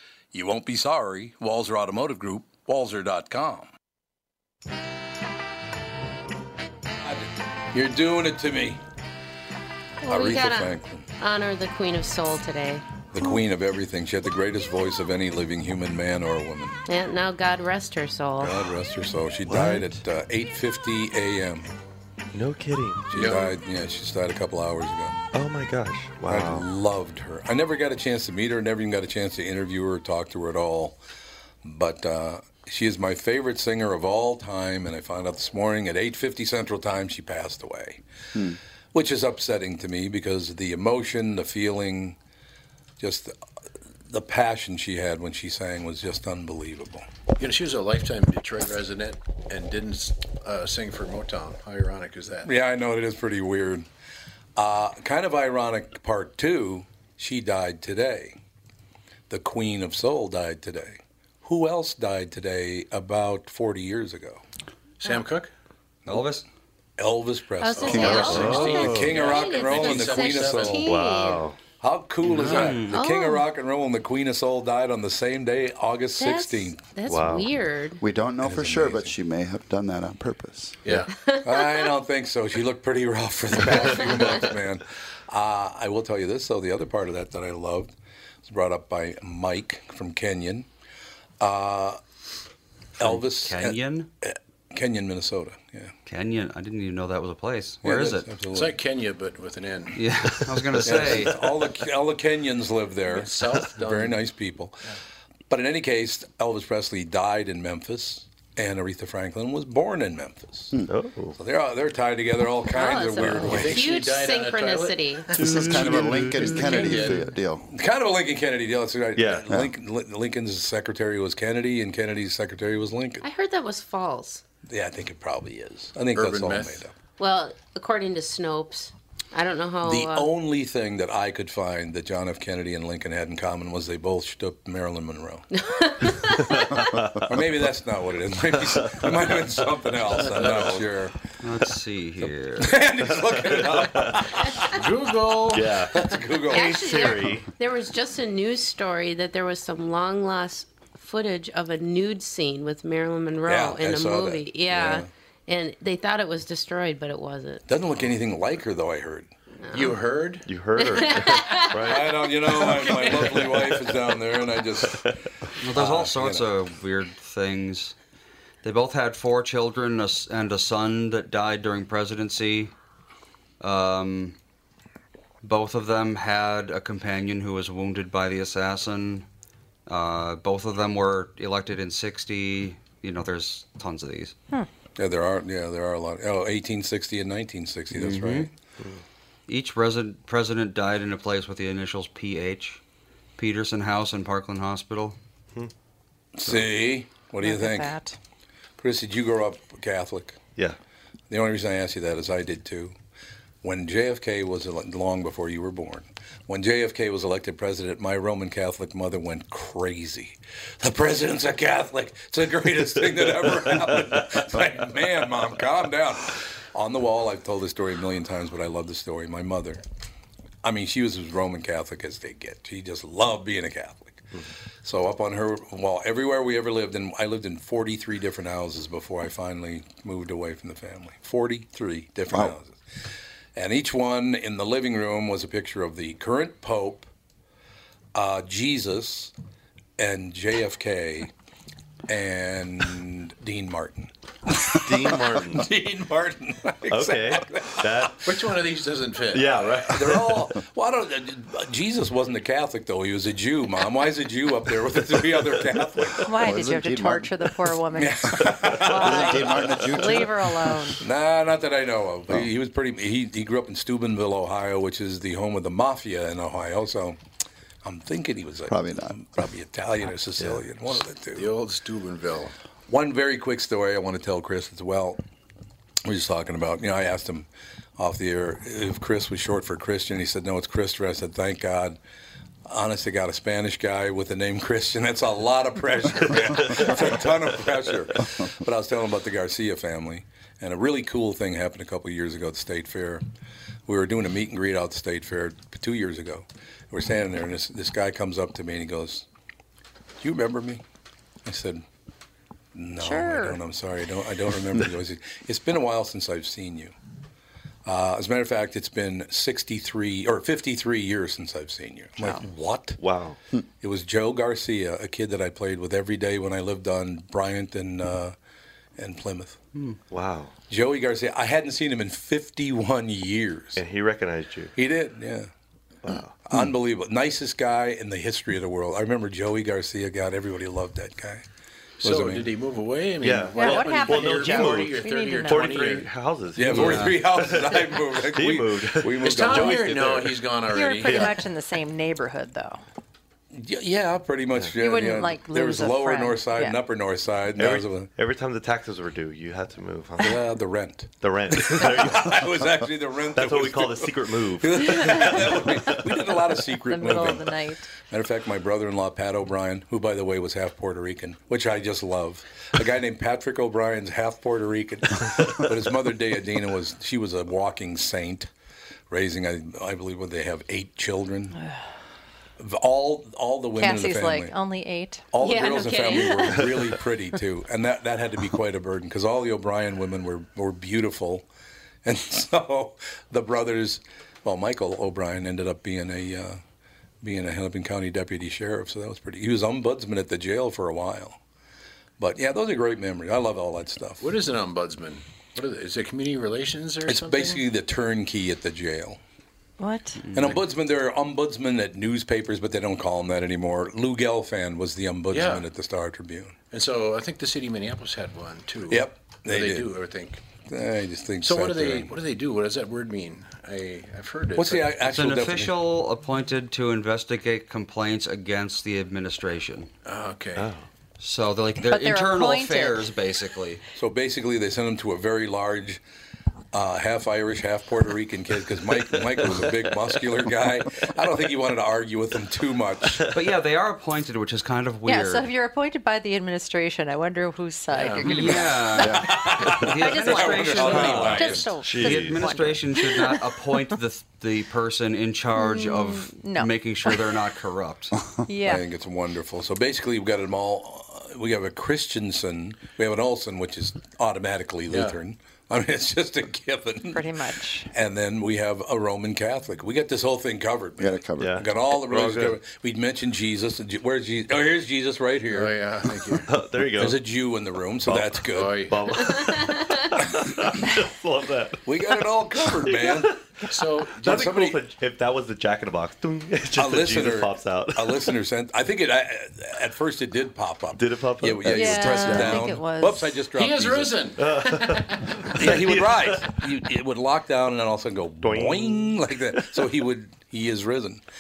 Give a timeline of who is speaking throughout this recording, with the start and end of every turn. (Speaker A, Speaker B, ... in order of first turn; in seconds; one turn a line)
Speaker A: 0.3-3.7
Speaker A: 7.0-8.8
Speaker B: 10.0-13.0
Speaker A: 10.1-11.1
Speaker A: 13.1-16.8
Speaker B: 16.9-18.7
Speaker A: 18.4-21.7
Speaker C: 19.5-19.9
Speaker C: 22.3-23.3
Speaker A: 23.1-25.2
Speaker D: 23.1-23.5
Speaker C: 25.3-26.7
Speaker A: 26.3-31.0
Speaker A: 31.6-38.0
Speaker E: 38.3-38.6
Speaker A: 38.9-42.2
Speaker A: 43.0-43.3
Speaker A: 44.1-47.0
Speaker D: 47.4-52.5
Speaker A: 52.5-53.9
Speaker A: 54.5-58.4
Speaker A: 59.3-64.4
Speaker D: 65.0-65.5
Speaker F: 66.1-66.4
Speaker A: 67.0-70.9
Speaker B: 67.6-71.5
Speaker D: 67.8-70.8
Speaker C: 67.9-69.2
Speaker C: 70.8-71.6
Speaker A: 71.8-76.8
Speaker D: 72.3-72.7
Speaker F: 72.4-73.0
Speaker B: 72.4-73.5
Speaker B: 76.2-78.0
Speaker C: 77.0-77.5
Speaker E: 78.0-80.8
Speaker A: 78.4-79.1
Speaker B: 81.1-81.9
Speaker A: 81.4-87.9
Speaker B: 83.6-84.3
Speaker A: 88.5-90.7
Speaker A: 91.4-92.0
Speaker A: 93.0-95.9
Speaker F: 93.0-94.1
Speaker F: 96.0-98.3
Speaker A: 97.8-98.7
Speaker D: 98.5-100.0
Speaker F: 99.9-101.3
Speaker C: 100.3-101.2
Speaker A: 100.8-104.8
Speaker D: 103.1-104.2
Speaker A: 105.5-110.7
Speaker C: 110.9-111.4
Speaker A: 111.4-113.9
Speaker B: 112.7-115.3
Speaker D: 113.5-115.3
Speaker C: 115.3-117.2
Speaker E: 115.3-117.7
Speaker D: 116.6-117.2
Speaker A: 117.7-123.3
Speaker C: 119.2-119.7
Speaker B: 123.2-124.4
Speaker A: 124.7-126.9
Speaker D: 126.2-126.8
Speaker B: 127.2-130.3
Speaker A: 129.8-135.5
Speaker B: 135.5-137.0
Speaker A: 137.3-141.2
Speaker C: 138.8-139.1
Speaker C: 140.1-140.8
Speaker F: 141.4-142.8
Speaker A: 142.6-144.7
Speaker C: 143.3-144.2
Speaker B: 144.5-144.8
Speaker D: 144.7-145.7
Speaker C: 145.5-147.5
Speaker A: 145.9-146.8
Speaker B: 146.5-157.6
Speaker A: 153.4-155.1
Speaker A: 157.7-159.3
Speaker B: 159.6-160.0
Speaker D: 159.7-160.5
Speaker C: 160.5-162.0
Speaker B: 160.7-162.0
Speaker A: 161.8-165.0
Speaker C: 162.6-163.4
Speaker D: 162.6-163.5
Speaker C: 164.8-165.1
Speaker F: 165.6-167.9
Speaker A: 165.7-166.5
Speaker F: 168.6-172.7
Speaker F: 173.6-174.3
Speaker F: 175.4-179.3
Speaker F: 179.8-184.3
Speaker A: 185.0-188.5
Speaker F: 187.9-188.5
Speaker F: 189.5-192.8
Speaker F: 193.4-195.2
Speaker A: 196.3-198.0
Speaker G: 197.4-198.2
Speaker A: 198.8-200.4
Speaker A: 201.3-202.9
Speaker A: 203.6-219.8
Speaker A: 220.6-224.3
Speaker A: 224.8-232.8
Speaker A: 233.5-237.1
Speaker A: 238.2-239.3
Speaker A: 240.0-241.3
Speaker A: 242.1-248.1
Speaker C: 244.7-245.7
Speaker C: 246.9-248.3
Speaker D: 248.3-249.7
Speaker C: 249.3-250.3
Speaker A: 249.9-256.3
Speaker G: 256.2-261.0
Speaker E: 256.4-257.3
Speaker A: 257.9-259.6
Speaker E: 258.9-260.4
Speaker A: 261.0-267.2
Speaker A: 267.8-271.5
Speaker E: 268.7-269.2
Speaker D: 271.3-272.5
Speaker A: 272.9-275.2
Speaker A: 276.0-282.0
Speaker A: 282.7-293.2
Speaker A: 293.9-299.2
Speaker A: 300.2-300.8
Speaker A: 301.4-301.8
Speaker A: 302.8-306.9
Speaker G: 303.0-303.6
Speaker A: 307.9-313.0
Speaker C: 313.0-313.4
Speaker A: 313.8-318.4
Speaker A: 319.0-319.6
Speaker C: 320.1-320.5
Speaker A: 320.7-323.8
Speaker C: 323.8-324.7
Speaker A: 324.8-325.5
Speaker C: 326.0-326.4
Speaker A: 326.5-331.4
Speaker D: 332.0-336.1
Speaker A: 332.0-332.5
Speaker C: 333.2-340.4
Speaker G: 333.6-335.9
Speaker A: 336.6-340.1
Speaker F: 336.8-337.2
Speaker D: 339.2-341.3
Speaker G: 340.7-342.8
Speaker C: 341.1-341.4
Speaker A: 343.5-348.1
Speaker G: 344.8-346.8
Speaker C: 347.6-350.5
Speaker A: 350.2-357.6
Speaker C: 351.2-352.7
Speaker C: 353.4-356.1
Speaker G: 356.9-357.9
Speaker A: 358.1-368.5
Speaker A: 369.1-371.6
Speaker A: 372.6-374.6
Speaker G: 373.8-375.2
Speaker A: 375.3-381.5
Speaker B: 375.4-376.9
Speaker A: 382.1-386.6
Speaker A: 387.2-391.4
Speaker A: 392.2-394.3
Speaker D: 394.2-397.6
Speaker A: 397.1-399.2
Speaker G: 399.8-400.2
Speaker F: 400.3-400.6
Speaker A: 400.3-406.5
Speaker D: 405.3-405.7
Speaker D: 406.7-410.4
Speaker A: 408.9-409.9
Speaker A: 410.7-412.1
Speaker D: 411.4-415.0
Speaker A: 414.6-415.7
Speaker F: 415.1-419.9
Speaker D: 420.1-420.7
Speaker C: 420.6-420.9
Speaker F: 421.2-423.8
Speaker G: 421.9-423.1
Speaker A: 424.0-426.0
Speaker A: 426.7-433.2
Speaker F: 433.3-435.5
Speaker G: 435.1-439.3
Speaker D: 437.9-438.6
Speaker F: 438.2-448.2
Speaker A: 438.5-441.7
Speaker G: 439.9-443.4
Speaker C: 441.0-442.5
Speaker G: 445.5-447.2
Speaker G: 448.5-448.8
Speaker A: 448.6-457.4
Speaker D: 454.9-455.2
Speaker G: 457.1-457.9
Speaker A: 457.9-465.7
Speaker E: 461.0-461.6
Speaker C: 461.4-462.6
Speaker D: 465.5-466.5
Speaker C: 466.4-467.2
Speaker A: 467.0-468.9
Speaker C: 468.1-471.8
Speaker D: 468.6-468.9
Speaker B: 469.3-470.0
Speaker A: 471.9-473.4
Speaker C: 472.6-473.4
Speaker D: 473.7-474.6
Speaker C: 474.1-478.4
Speaker A: 474.2-474.8
Speaker A: 476.8-484.3
Speaker C: 481.0-482.6
Speaker G: 481.7-483.4
Speaker D: 483.6-485.3
Speaker C: 484.4-486.6
Speaker A: 485.5-491.2
Speaker C: 488.4-489.8